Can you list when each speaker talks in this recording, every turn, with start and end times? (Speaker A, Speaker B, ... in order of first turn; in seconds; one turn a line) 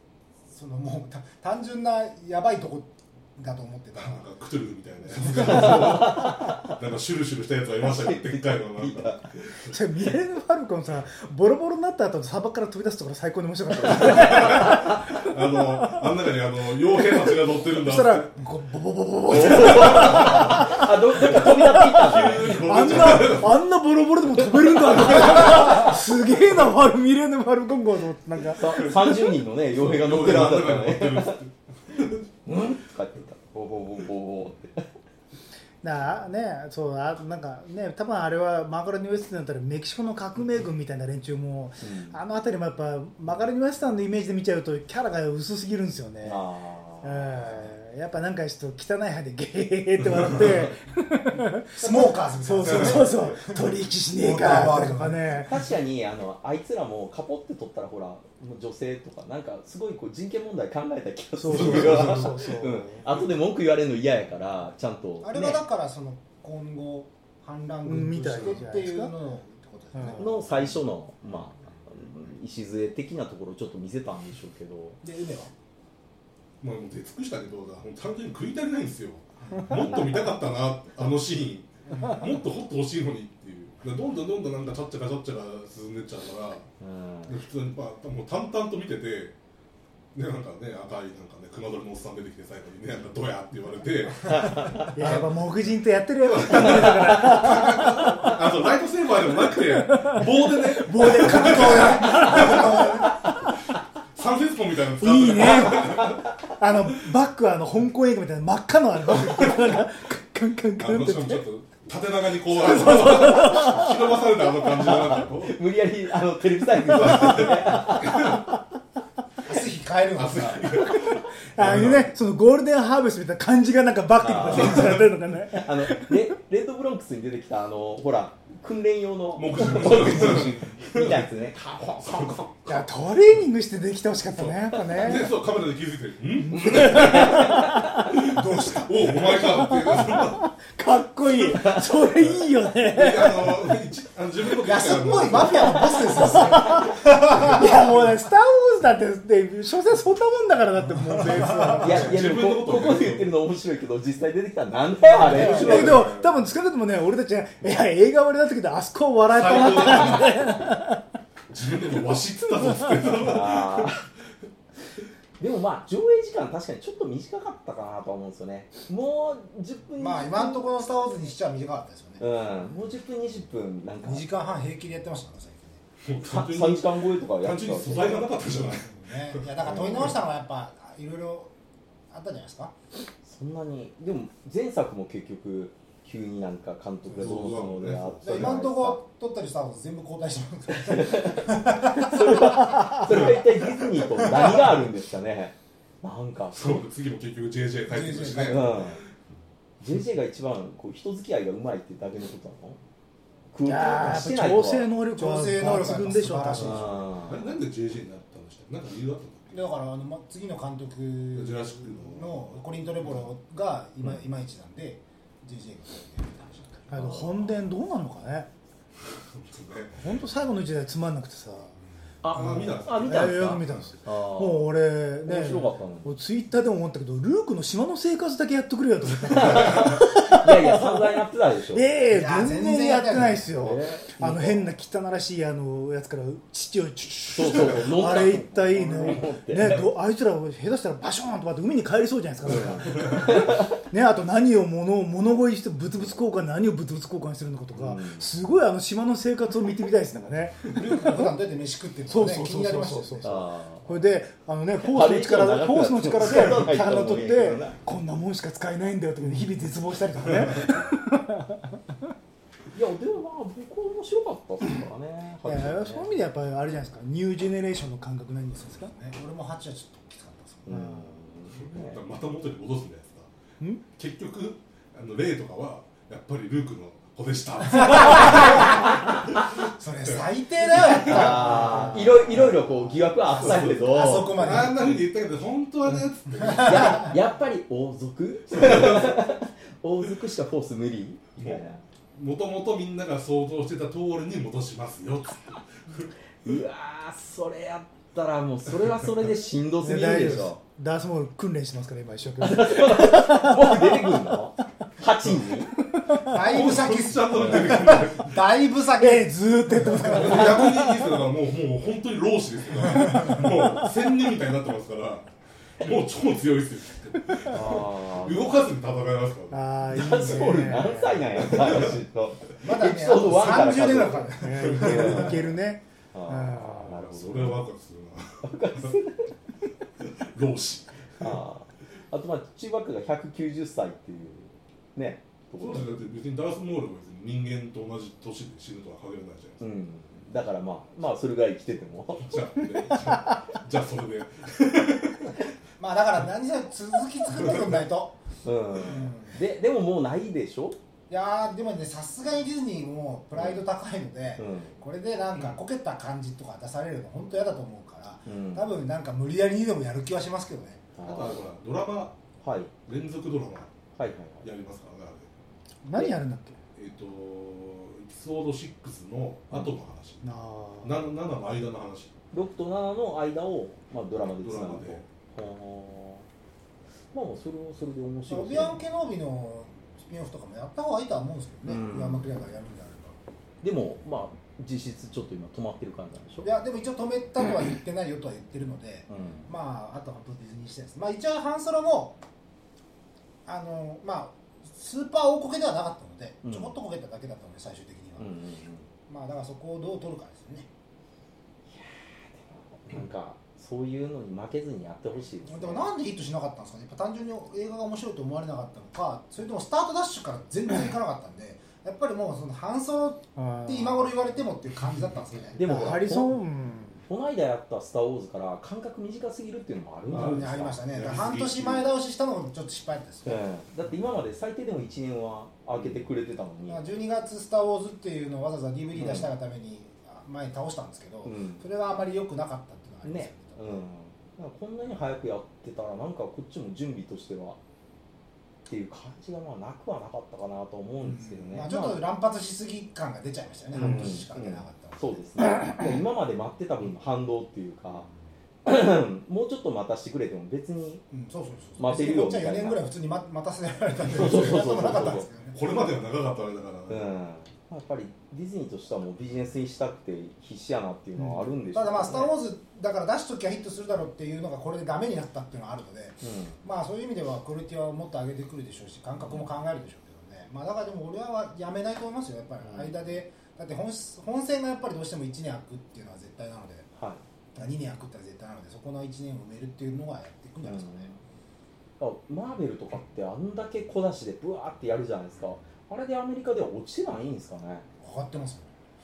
Speaker A: 0.5-4.2
Speaker B: 4.0-9.8
Speaker A: 5.1-6.0
Speaker C: 5.3-6.7
Speaker C: 7.8-9.2
Speaker D: 9.7-16.0
Speaker B: 13.9-18.3
Speaker D: 17.0-28.9
Speaker C: 19.3-22.7
Speaker B: 19.3-20.7
Speaker B: 21.9-23.6
Speaker C: 24.7-25.8
Speaker C: 28.5-31.4
Speaker B: 29.7-32.1
Speaker C: 32.4-34.9
Speaker D: 35.8-46.4
Speaker C: 41.8-42.2
Speaker C: 46.2-47.5
Speaker D: 47.0-55.6
Speaker A: 51.8-53.6
Speaker A: 54.1-55.4
Speaker C: 55.4-65.6
Speaker D: 61.4-63.0
Speaker B: 61.6-62.0
Speaker A: 65.2-70.8
Speaker D: 67.8-69.1
Speaker D: 69.9-70.4
Speaker C: 70.2-75.0
Speaker A: 75.0-75.5
Speaker B: 76.6-86.7
Speaker A: 79.4-79.7
Speaker C: 86.8-87.4
Speaker B: 87.2-89.3
Speaker B: 90.1-95.4
Speaker C: 94.3-94.9
Speaker D: 94.8-98.3
Speaker B: 96.2-103.1
Speaker D: 99.6-103.5
Speaker A: 101.2-103.2
Speaker B: 104.1-106.3
Speaker D: 105.0-111.4
Speaker B: 110.8-115.6
Speaker D: 112.6-113.9
Speaker C: 114.8-118.6
Speaker B: 116.8-118.5
Speaker A: 119.5-120.9
Speaker B: 120.1-122.1
Speaker D: 121.1-126.3
Speaker C: 124.2-132.4
Speaker B: 124.5-125.0
Speaker B: 129.3-132.9
Speaker D: 132.7-135.3
Speaker B: 134.3-140.5
Speaker D: 136.4-138.1
Speaker C: 136.6-137.8
Speaker A: 138.2-139.1
Speaker D: 139.3-143.7
Speaker B: 142.2-146.2
Speaker A: 144.5-147.7
Speaker D: 145.6-152.2
Speaker A: 151.1-151.9
Speaker B: 151.7-153.3
Speaker C: 151.8-156.3
Speaker B: 155.1-156.1
Speaker D: 155.2-161.0
Speaker A: 155.3-155.7
Speaker B: 159.3-160.6
Speaker B: 161.5-164.0
Speaker C: 163.2-164.0
Speaker C: 165.4-170.7
Speaker A: 170.0-172.2
Speaker C: 172.2-174.2
Speaker A: 174.0-175.8
Speaker B: 176.0-180.1
Speaker C: 176.2-178.3
Speaker A: 178.4-181.5
Speaker C: 179.7-180.1
Speaker A: 182.1-182.7
Speaker C: 183.2-189.0
Speaker B: 187.1-188.6
Speaker A: 188.2-192.6
Speaker C: 190.7-196.8
Speaker B: 193.0-193.4
Speaker A: 193.8-194.8
Speaker B: 196.5-199.1
Speaker A: 197.9-198.8
Speaker C: 198.4-199.0
Speaker C: 199.8-202.8
Speaker C: 203.5-204.9
Speaker D: 203.6-206.9
Speaker A: 205.1-207.1
Speaker C: 206.6-207.4
Speaker B: 207.2-209.7
Speaker A: 209.5-217.2
Speaker B: 211.3-213.2
Speaker D: 216.9-218.5
Speaker C: 216.9-217.3
Speaker B: 219.3-220.0
Speaker D: 219.9-221.7
Speaker C: 222.2-226.1
Speaker B: 222.3-223.8
Speaker D: 222.4-231.2
Speaker C: 229.3-231.9
Speaker D: 231.7-251.3
Speaker A: 232.1-233.5
Speaker C: 233.6-234.7
Speaker C: 237.3-239.9
Speaker C: 242.5-243.7
Speaker C: 247.7-248.3
Speaker A: 250.7-253.4
Speaker D: 252.1-262.1
Speaker C: 253.2-253.9
Speaker C: 254.8-257.8
Speaker C: 262.7-266.1
Speaker D: 265.4-268.9
Speaker A: 268.6-270.9
Speaker C: 270.7-272.0
Speaker D: 270.7-271.1
Speaker B: 271.7-273.3
Speaker B: 273.9-279.3
Speaker A: 277.8-278.8
Speaker C: 278.3-278.8
Speaker A: 279.7-282.6
Speaker B: 280.0-281.8
Speaker C: 280.9-284.7
Speaker B: 283.3-287.1
Speaker A: 283.3-285.0
Speaker C: 286.6-291.8
Speaker B: 288.5-289.2
Speaker B: 292.1-296.1
Speaker C: 296.4-300.6
Speaker D: 299.8-304.3
Speaker C: 302.4-305.7
Speaker D: 306.0-306.4
Speaker A: 306.2-310.3
Speaker B: 306.4-308.4
Speaker D: 309.0-311.1
Speaker B: 310.0-315.3
Speaker B: 315.8-320.2
Speaker C: 317.5-318.6
Speaker D: 319.5-321.3
Speaker C: 319.9-325.5
Speaker B: 321.4-322.0
Speaker A: 322.6-325.3
Speaker D: 324.4-327.0
Speaker B: 324.9-325.2
Speaker C: 326.1-327.6
Speaker B: 326.9-328.9
Speaker C: 328.4-329.3
Speaker B: 330.0-330.9
Speaker C: 331.2-335.9
Speaker B: 335.6-339.6
Speaker C: 339.6-342.4
Speaker B: 342.2-345.5
Speaker A: 345.8-348.1
Speaker C: 348.4-350.8
Speaker A: 348.8-349.4
Speaker A: 351.1-360.8
Speaker C: 353.3-353.6
Speaker C: 354.4-354.7
Speaker C: 358.2-358.6
Speaker C: 361.0-361.4
Speaker B: 361.0-362.1
Speaker C: 362.4-362.7
Speaker B: 362.9-363.7
Speaker C: 364.0-364.5
Speaker B: 364.4-365.3
Speaker D: 365.8-366.6
Speaker B: 366.8-370.2
Speaker D: 370.2-371.0
Speaker B: 370.8-372.1
Speaker C: 372.3-376.2
Speaker B: 374.4-375.0
Speaker C: 377.1-378.8
Speaker A: 378.3-383.1
Speaker C: 381.7-382.3
Speaker C: 383.6-386.6
Speaker A: 386.4-392.2
Speaker C: 389.1-389.5
Speaker A: 393.4-398.3
Speaker C: 396.4-396.7
Speaker C: 398.2-398.9
Speaker A: 399.1-400.7
Speaker C: 401.7-405.9
Speaker A: 405.4-415.9
Speaker D: 413.4-414.1
Speaker C: 415.5-416.4
Speaker D: 415.6-417.0
Speaker C: 417.1-420.8
Speaker B: 420.1-421.9
Speaker A: 420.1-423.4
Speaker C: 423.2-426.8
Speaker A: 426.7-433.8
Speaker C: 428.9-429.3
Speaker C: 431.2-431.6
Speaker C: 433.0-437.6
Speaker C: 438.7-442.0
Speaker A: 441.0-445.2
Speaker C: 443.7-448.1
Speaker C: 448.6-451.0
Speaker A: 451.1-455.6
Speaker C: 451.8-452.8
Speaker B: 454.0-457.1
Speaker C: 454.1-455.3
Speaker C: 456.9-462.4
Speaker A: 461.1-476.9
Speaker C: 466.2-466.6
Speaker C: 472.6-473.0
Speaker C: 476.9-477.2
Speaker A: 477.5-481.1
Speaker C: 480.6-481.2
Speaker C: 482.0-487.8
Speaker A: 488.0-488.7